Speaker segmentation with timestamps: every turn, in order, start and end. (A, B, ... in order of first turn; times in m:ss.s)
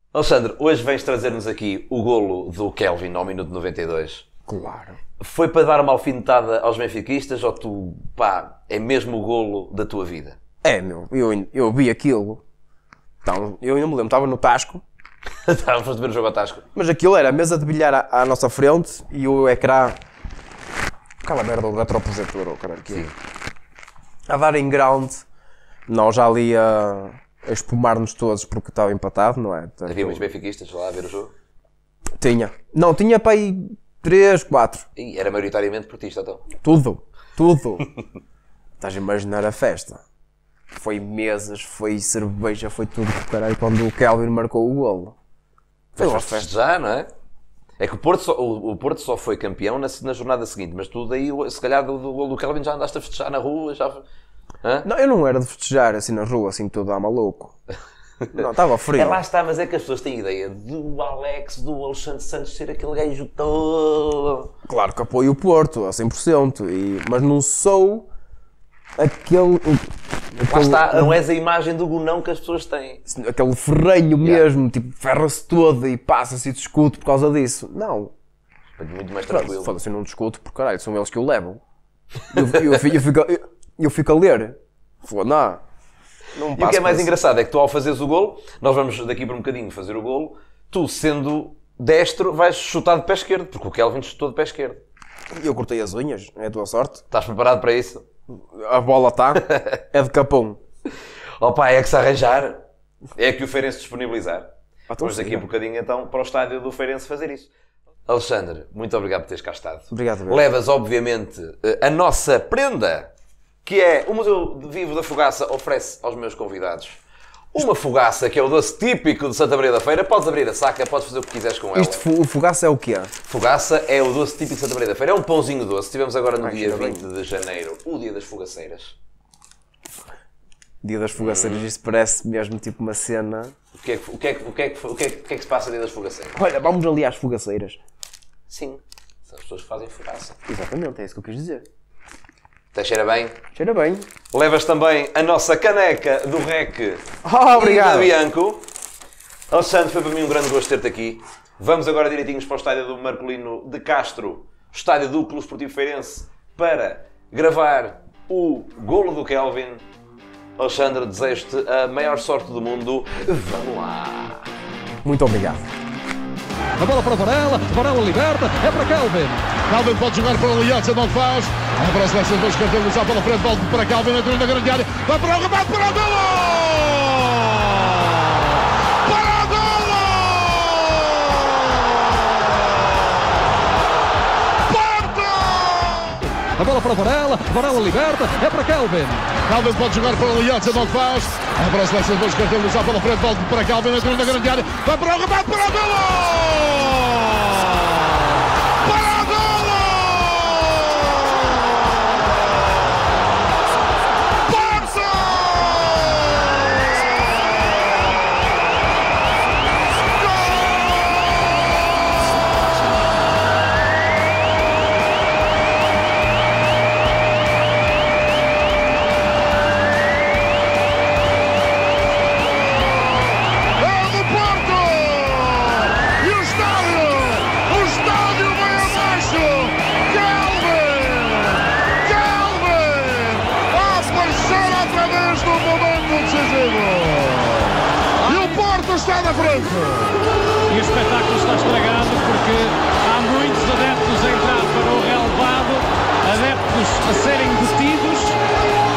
0:00.1-0:04.2 A
0:04.5-0:05.0 B
0:05.2-0:10.4 A
0:10.6-0:12.4 B
0:13.2-0:14.8 B
0:15.4-0:16.6 A
0:16.7-0:20.0 B
0:21.2-0:23.0 B
0:24.3-0:25.2 B
0:25.9-0:30.2 B
0:29.9-0:31.3 A
0:32.2-0:34.8 B
0:35.0-0:36.5 A
0:36.6-0:37.9 B
0:38.8-0:40.0 B
0:40.7-0:45.1 B
0:46.0-0:46.5 B
0:46.0-0:47.1 A
0:47.8-0:54.0 A
0:54.8-0:57.5 B
0:58.3-0:59.2 B
0:58.9-1:04.5 A
1:04.6-1:08.1 B
1:09.0-1:11.2 B
1:10.4-1:13.0 A
1:13.1-1:18.1 B
1:18.8-1:19.7 A
1:19.3-1:21.6 B
1:22.3-1:25.6 B
1:26.3-1:27.1 B
1:26.6-1:34.8 A
1:35.4-1:37.0 B
1:37.1-1:38.0 A
1:38.3-1:40.6 B
1:39.4-1:39.8 A
1:41.4-1:42.6 A
1:43.2-1:47.5 A
1:44.9-1:45.4 B
1:48.1-1:53.1 A
1:49.9-1:50.4 B
1:53.6-1:57.0 A
1:57.5-2:02.0 A
2:01.7-2:03.1 B
2:03.3-2:09.0 A
2:06.4-2:07.0 B
2:10.8-2:13.5 B
2:11.2-2:11.7 A
2:13.7-2:16.4 A
2:16.3-2:17.8 B
2:18.5-2:20.4 A
2:20.4-2:21.6 B
2:22.7-2:23.4 A
2:23.5-2:24.1 B
2:24.3-2:28.7 A
2:27.2-2:28.1 B
2:29.5-2:39.8 A
2:40.6-2:44.5 A
2:45.0-2:45.7 B
2:46.8-2:49.6 C
2:49.6-2:58.2 D
2:59.0-3:03.3 D
3:04.7-3:06.2 D
3:06.4-3:09.4 C
3:09.4-3:18.2 D
3:19.0-3:22.3 D
3:24.6-3:26.3 D
3:42.8-4:00.2 D
4:00.7-4:08.3 E
4:02.5-4:02.9 C